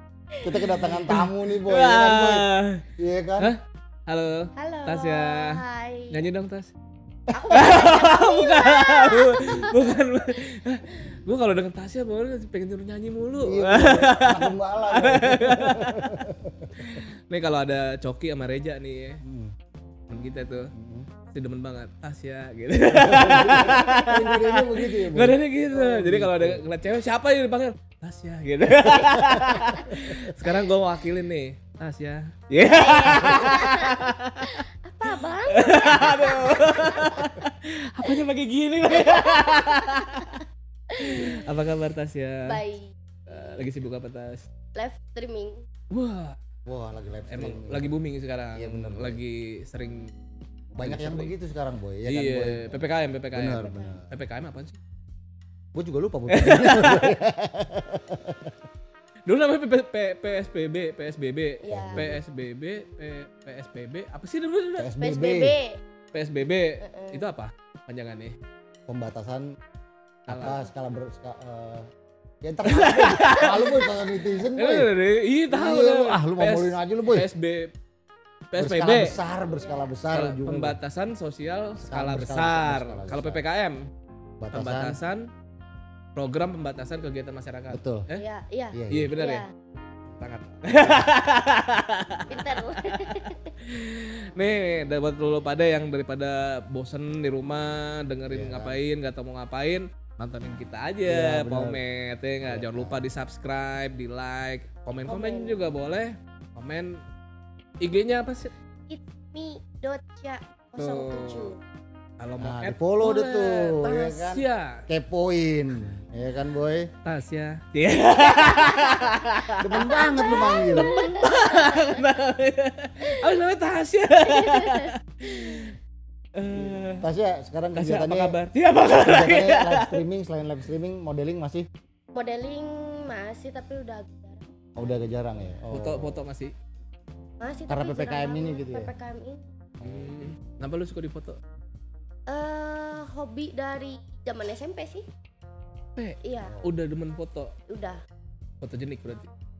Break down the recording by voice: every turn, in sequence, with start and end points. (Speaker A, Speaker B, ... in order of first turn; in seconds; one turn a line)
Speaker A: 0.4-3.5
Speaker B: 0.5-2.8
Speaker B: 3.4-6.7
Speaker C: 4.5-6.2
Speaker C: 7.3-10.0
Speaker A: 7.4-7.7
Speaker B: 7.5-16.0
Speaker A: 13.4-17.0
Speaker B: 16.8-19.2
Speaker A: 19.2-19.5
Speaker B: 20.1-20.7
Speaker A: 20.7-21.1
Speaker B: 21.3-40.4
Speaker A: 22.9-26.6
Speaker A: 29.3-30.3
Speaker C: 32.6-37.3
Speaker C: 38.9-41.5
Speaker B: 41.0-42.6
Speaker C: 42.4-43.7
Speaker B: 43.3-44.5
Speaker C: 44.8-45.6
Speaker B: 45.9-46.4
Speaker A: 46.6-47.9
Speaker B: 47.3-50.1
Speaker A: 48.5-49.2
Speaker A: 50.8-54.1
Speaker B: 50.8-51.3
Speaker B: 52.1-54.8
Speaker C: 53.6-54.0
Speaker A: 55.7-58.6
Speaker B: 56.3-57.1
Speaker B: 59.3-64.9
Speaker C: 61.6-62.0
Speaker A: 61.7-62.2
Speaker A: 64.8-65.5
Speaker C: 65.0-65.8
Speaker B: 66.1-68.3
Speaker C: 66.8-67.2
Speaker A: 68.9-69.5
Speaker B: 70.3-70.6
Speaker A: 70.3-71.9
Speaker A: 72.4-74.9
Speaker B: 72.6-77.7
Speaker C: 73.3-73.7
Speaker A: 75.5-77.3
Speaker B: 78.5-79.2
Speaker A: 78.6-80.8
Speaker C: 79.5-80.0
Speaker B: 80.1-83.9
Speaker A: 81.8-83.4
Speaker A: 84.4-85.0
Speaker B: 84.5-85.3
Speaker B: 86.1-88.2
Speaker A: 87.7-88.1
Speaker C: 88.1-89.5
Speaker A: 88.7-89.1
Speaker B: 88.9-89.4
Speaker B: 90.1-107.0
Speaker C: 92.3-93.5
Speaker A: 98.3-98.8
Speaker A: 101.0-101.8
Speaker A: 102.5-103.0
Speaker C: 105.1-105.6
Speaker B: 107.8-108.5
Speaker C: 108.9-111.6
Speaker B: 110.8-111.5
Speaker B: 112.2-114.8
Speaker A: 112.4-116.9
Speaker B: 117.0-125.8
Speaker C: 118.2-122.0
Speaker A: 119.6-121.0
Speaker C: 124.2-124.9
Speaker B: 126.3-127.0
Speaker A: 126.5-128.4
Speaker B: 127.8-130.0
Speaker A: 128.9-131.7
Speaker C: 132.1-134.4
Speaker A: 134.8-136.2
Speaker B: 135.7-136.5
Speaker C: 137.4-139.5
Speaker A: 137.7-138.9
Speaker A: 139.8-140.3
Speaker B: 139.8-141.4
Speaker C: 142.3-145.1
Speaker B: 146.0-147.5
Speaker C: 146.2-146.6
Speaker C: 147.7-148.0
Speaker B: 148.6-149.3